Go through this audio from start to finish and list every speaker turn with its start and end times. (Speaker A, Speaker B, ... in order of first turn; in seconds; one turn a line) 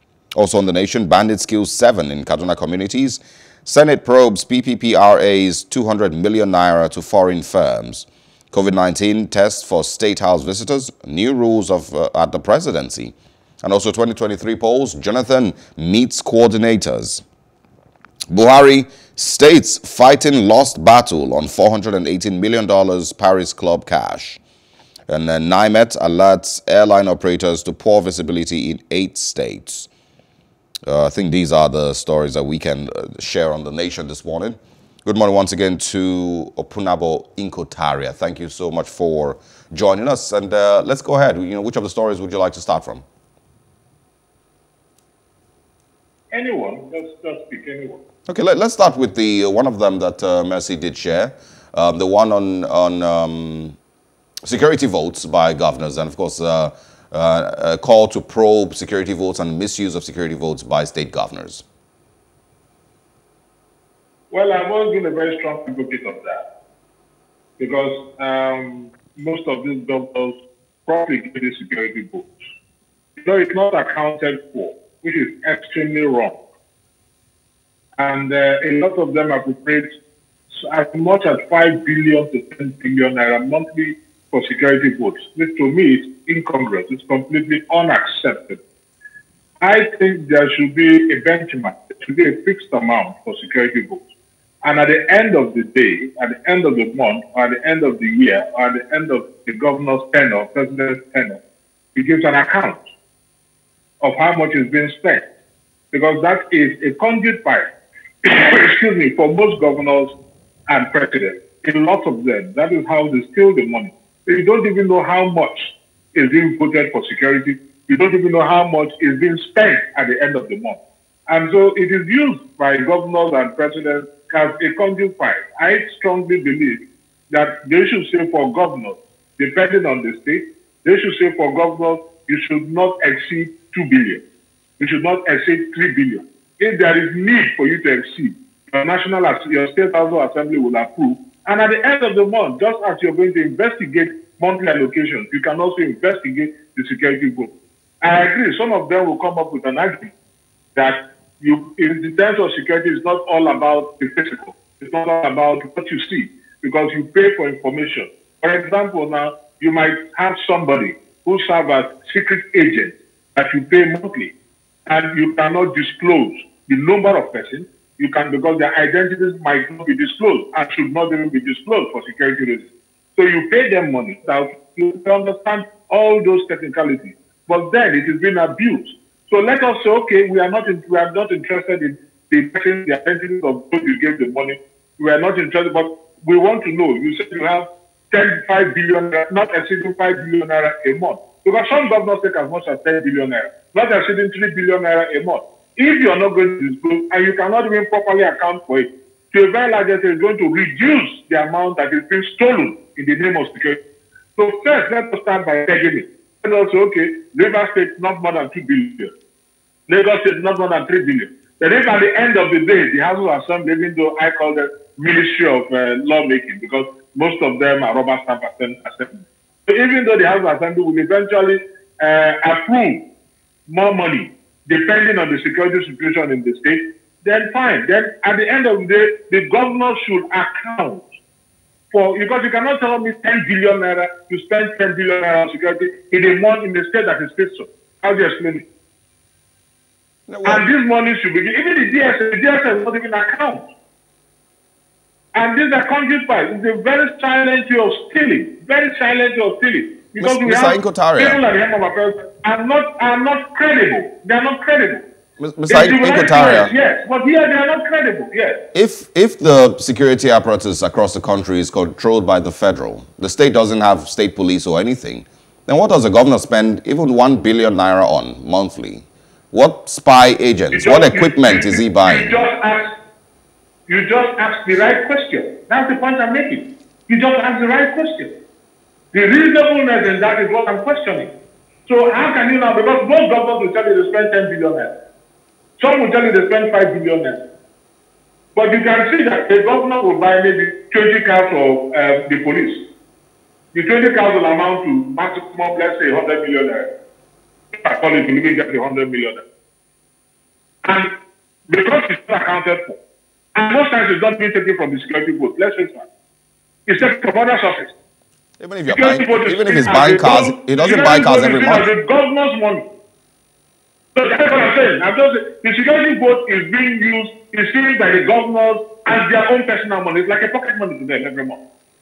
Speaker A: 0.3-17.2
Speaker A: 18.3-24.4
Speaker A: 25.1-29.9
Speaker A: 30.9-43.0
Speaker B: 46.3-48.0
Speaker A: 48.3-53.8
Speaker A: 54.4-61.6
Speaker B: 64.3-66.4
Speaker B: 67.6-72.3
Speaker B: 73.2-76.4
Speaker B: 78.0-79.9
Speaker B: 80.5-88.6
Speaker B: 89.6-94.0
Speaker B: 94.6-101.4
Speaker B: 101.9-102.8
Speaker B: 104.0-105.2
Speaker B: 105.9-107.7
Speaker B: 108.2-110.1
Speaker B: 110.7-134.2
Speaker B: 134.8-150.1
Speaker B: 150.8-164.3
Speaker B: 164.9-203.8
Speaker B: 204.3-209.1
Speaker B: 209.9-223.0
Speaker B: 223.7-231.1
Speaker B: 231.9-238.7
Speaker A: 240.3-240.6
Speaker B: 240.4-243.7
Speaker B: 245.3-255.0
Speaker A: 250.2-251.4
Speaker A: 255.4-256.7
Speaker B: 255.7-258.6
Speaker A: 258.7-272.4
Speaker B: 270.7-272.9
Speaker B: 273.9-278.3
Speaker B: 279.1-281.3
Speaker B: 281.9-284.9
Speaker B: 285.8-287.4
Speaker B: 288.5-292.9
Speaker B: 293.7-296.9
Speaker B: 297.8-299.4
Speaker B: 300.8-301.1
Speaker B: 301.7-303.0
Speaker B: 303.5-306.1
Speaker B: 306.9-307.9
Speaker A: 308.6-311.9
Speaker B: 308.9-312.9
Speaker B: 314.1-321.6